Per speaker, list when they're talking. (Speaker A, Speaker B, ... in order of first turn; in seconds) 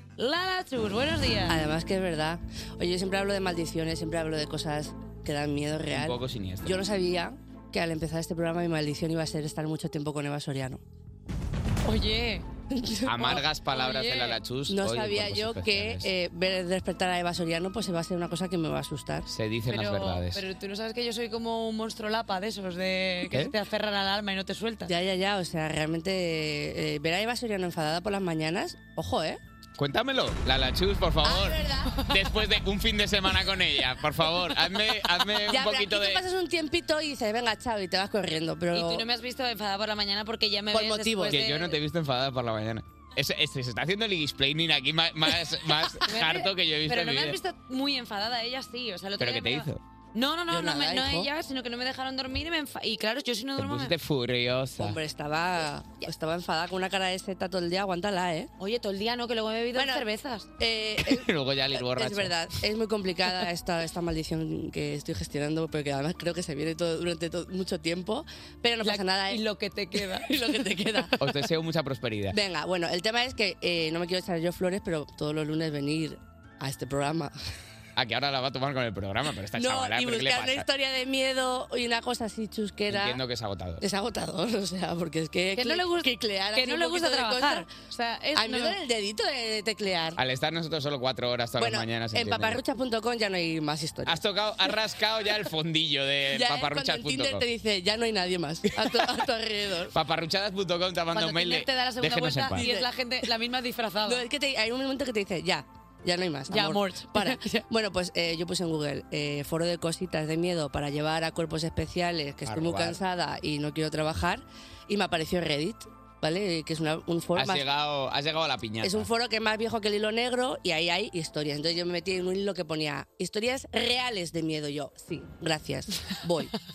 Speaker A: 0.2-1.6, 11.8-12.4, 13.2-14.4, 19.7-24.9, 38.7-41.8, 46.0-53.9, 58.6-60.5, 68.8-70.4, 85.5-88.8, 101.1-104.2, 106.5-107.7
Speaker B: 1.5-10.8, 12.7-13.4, 14.7-19.3, 24.9-29.4, 31.2-32.1, 35.5-39.0, 40.7-41.4, 50.5-51.3, 54.8-58.5, 59.7-60.1, 60.6-69.4, 69.9-71.2, 72.3-77.3, 79.5-83.2, 83.8-87.7, 88.3-90.2, 91.6-94.2, 96.3-99.9, 102.5-102.9, 104.0-117.7, 118.8-126.5
Speaker C: 5.9-6.8, 13.1-16.1, 19.3-20.4, 29.8-36.2, 41.3-47.4, 49.2-49.8, 53.6-55.0, 61.0-62.4, 71.2-72.4, 78.0-80.7, 82.9-83.8, 90.2-92.6, 94.1-97.5, 99.9-102.7, 112.5-113.0, 117.3-119.1